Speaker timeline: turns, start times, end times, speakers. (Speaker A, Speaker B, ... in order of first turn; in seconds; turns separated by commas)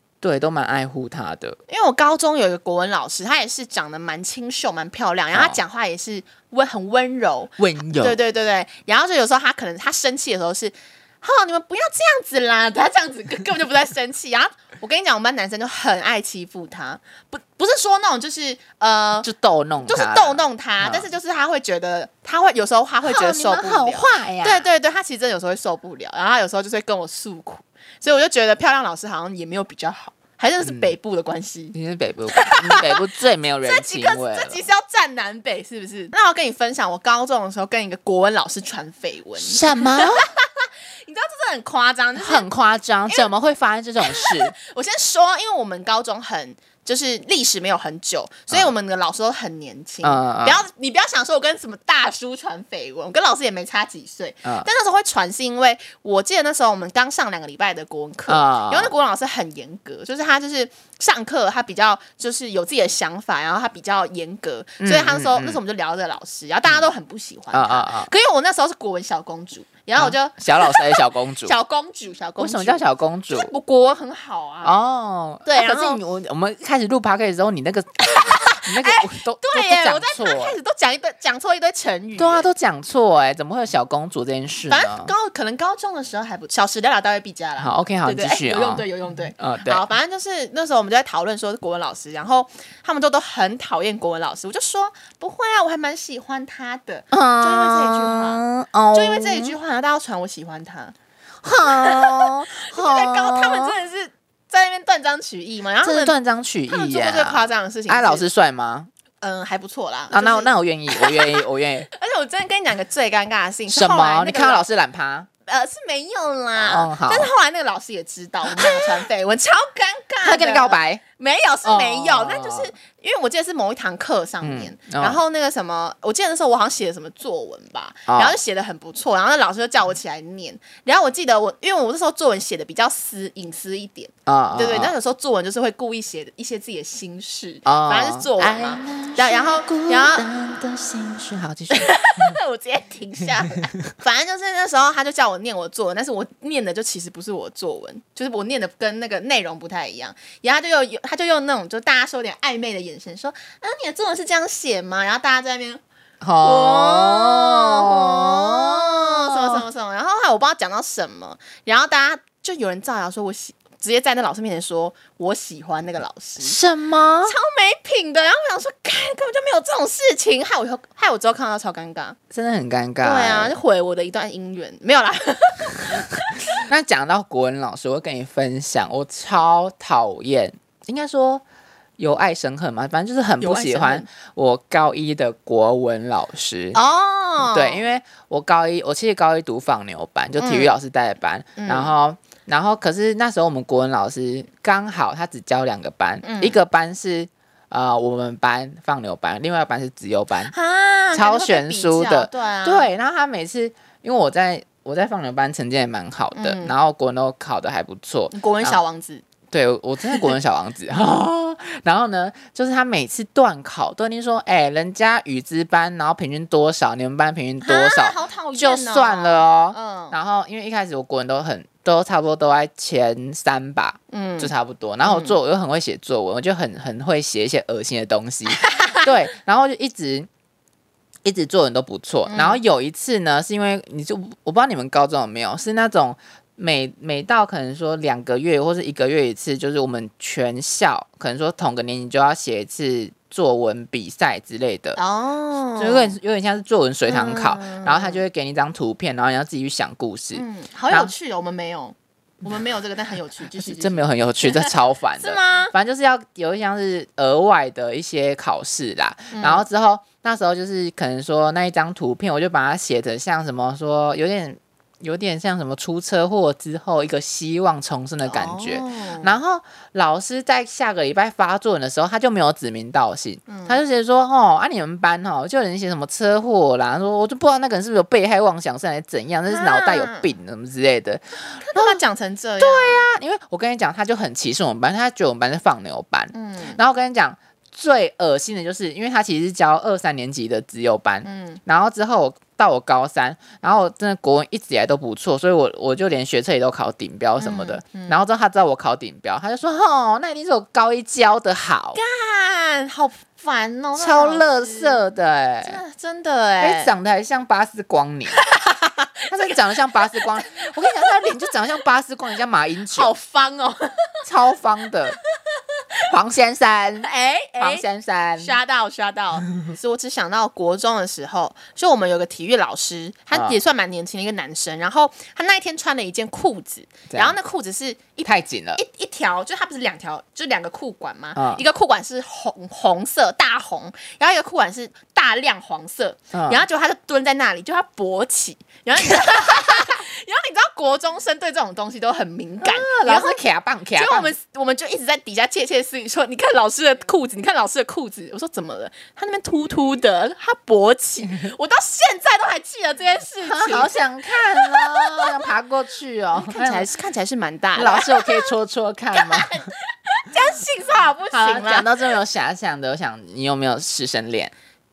Speaker A: 0.2-1.6, Speaker B: 1.7-19.3, Speaker A: 7.6-8.2, Speaker A: 19.2-21.1, Speaker B: 19.8-31.7, Speaker A: 23.0-24.7, Speaker A: 30.6-30.9, Speaker A: 31.7-34.6, Speaker B: 32.3-32.9, Speaker B: 33.6-42.5, Speaker A: 39.4-40.3, Speaker A: 42.1-44.5, Speaker B: 43.1-43.3, Speaker B: 44.0-74.7, Speaker A: 50.0-50.6, Speaker A: 58.3-58.9, Speaker A: 64.8-65.6, Speaker A: 67.5-68.1, Speaker A: 70.0-71.5, Speaker A: 72.4-73.5, Speaker A: 74.6-80.5, Speaker B: 75.4-76.0, Speaker B: 78.1-82.5, Speaker A: 82.2-85.1, Speaker B: 84.7-98.4, Speaker A: 87.6-89.8, Speaker A: 97.1-99.5, Speaker B: 98.9-100.9, Speaker A: 101.4-103.7, Speaker B: 101.6-106.1, Speaker A: 105.8-108.9, Speaker B: 106.7-108.3, Speaker B: 109.2-114.7, Speaker A: 110.1-111.9, Speaker A: 113.7-115.3, Speaker B: 115.5-140.3, Speaker A: 116.5-117.3, Speaker A: 118.5-119.0, Speaker A: 120.2-121.0, Speaker A: 121.6-122.7, Speaker A: 124.4-125.2, Speaker A: 128.1-128.4, Speaker A: 134.3-134.9, Speaker A: 137.7-142.4, Speaker B: 141.7-155.8, Speaker A: 156.2-159.6, Speaker B: 156.4-166.6, Speaker A: 166.4-167.3, Speaker B: 167.2-172.2, Speaker A: 172.3-173.5, Speaker B: 173.0-176.3, Speaker A: 176.7-181.4, Speaker A: 182.0-186.8, Speaker B: 183.4-184.1, Speaker B: 186.7-187.8, Speaker A: 187.4-200.5, Speaker B: 190.4-190.7, Speaker B: 191.6-191.9, Speaker B: 196.2-196.6, Speaker B: 200.4-202.9, Speaker A: 201.1-208.8, Speaker B: 206.3-206.7, Speaker B: 208.3-209.2, Speaker A: 209.5-230.3, Speaker B: 210.0-210.3, Speaker B: 217.6-220.2, Speaker B: 224.1-224.5, Speaker B: 225.0-225.3, Speaker A: 231.2-245.0, Speaker B: 232.3-232.6, Speaker B: 244.9-246.1, Speaker A: 245.8-251.1, Speaker B: 247.1-248.2, Speaker B: 250.3-255.7, Speaker A: 253.6-282.0, Speaker B: 259.3-259.6, Speaker B: 268.2-269.4, Speaker B: 273.5-273.8, Speaker B: 279.5-280.3, Speaker B: 281.6-283.1, Speaker A: 282.6-302.0, Speaker B: 286.3-286.8, Speaker B: 291.2-291.6, Speaker B: 297.4-298.2, Speaker B: 301.9-305.0, Speaker A: 303.9-305.8, Speaker B: 305.6-306.9, Speaker A: 306.6-308.4, Speaker B: 308.3-311.4, Speaker A: 309.3-313.1, Speaker B: 312.9-314.1, Speaker A: 314.2-315.2, Speaker A: 316.1-318.6, Speaker B: 317.0-317.8, Speaker B: 318.4-343.4, Speaker A: 323.3-323.6, Speaker A: 327.1-327.4, Speaker A: 328.2-328.8, Speaker A: 331.4-331.6, Speaker A: 336.3-336.6, Speaker A: 342.6-344.3, Speaker B: 343.9-355.3, Speaker A: 353.4-356.9, Speaker B: 356.3-358.5, Speaker A: 357.8-359.6, Speaker B: 359.1-361.9, Speaker A: 361.3-364.5